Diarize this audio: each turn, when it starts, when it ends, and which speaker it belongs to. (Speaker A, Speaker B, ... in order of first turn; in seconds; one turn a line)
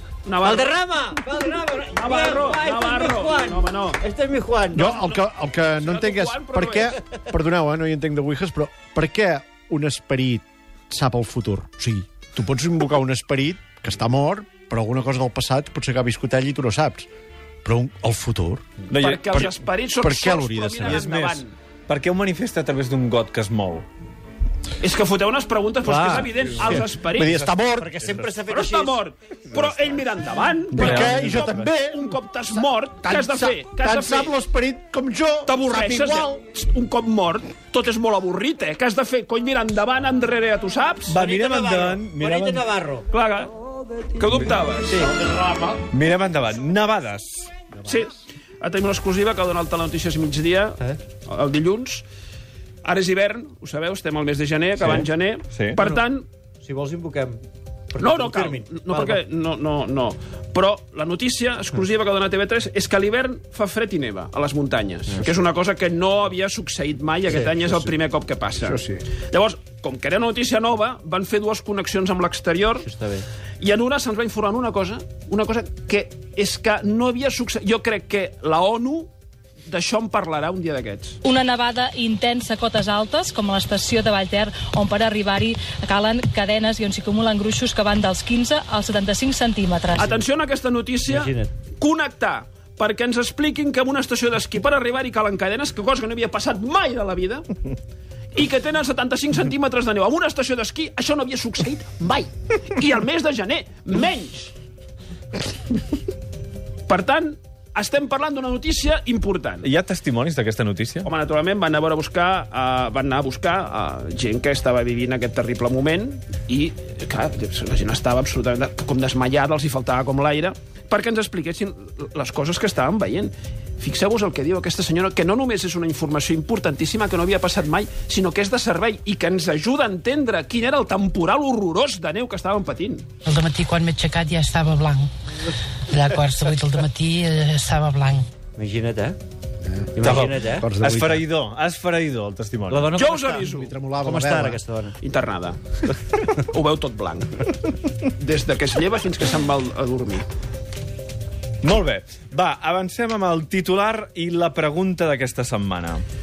Speaker A: 0.2-0.8
Speaker B: 0.5-4.8
Speaker A: 1.9-4.0
Speaker C: 4.2-17.1
Speaker A: 4.8-7.0
Speaker C: 17.6-18.6
Speaker D: 18.9-19.5
Speaker A: 18.9-21.5
Speaker C: 20.0-21.0
Speaker D: 20.8-23.9
Speaker A: 24.8-27.5
Speaker C: 25.9-28.1
Speaker B: 27.8-29.0
Speaker A: 28.5-34.3
Speaker D: 30.7-31.7
Speaker C: 30.7-32.1
Speaker C: 33.0-36.4
Speaker A: 35.5-41.2
Speaker D: 41.1-42.7
Speaker B: 41.2-42.6
Speaker C: 42.0-43.0
Speaker A: 43.1-43.5
Speaker A: 44.2-45.1
Speaker C: 44.9-45.7
Speaker D: 45.9-47.5
Speaker A: 47.9-52.1
Speaker A: 52.8-56.3
Speaker D: 54.8-55.8
Speaker C: 56.7-57.4
Speaker C: 57.9-59.2
Speaker A: 58.0-72.9
Speaker C: 68.6-69.0
Speaker A: 73.6-79.1
Speaker A: 79.7-81.2
Speaker E: 81.2-90.2
Speaker A: 90.0-97.5
Speaker C: 91.1-91.5
Speaker A: 98.3-104.5
Speaker A: 106.9-109.7
Speaker D: 109.6-111.1
Speaker A: 111.0-133.1
Speaker F: 133.2-135.1
Speaker F: 135.9-138.3
Speaker B: 138.6-139.2
Speaker C: 139.7-141.2
Speaker B: 140.0-140.7
Speaker D: 140.0-142.9
Speaker B: 142.7-143.4
Speaker A: 142.9-143.7
Speaker C: 143.3-144.6
Speaker B: 144.0-144.9
Speaker A: 145.0-150.3
Speaker D: 151.6-156.0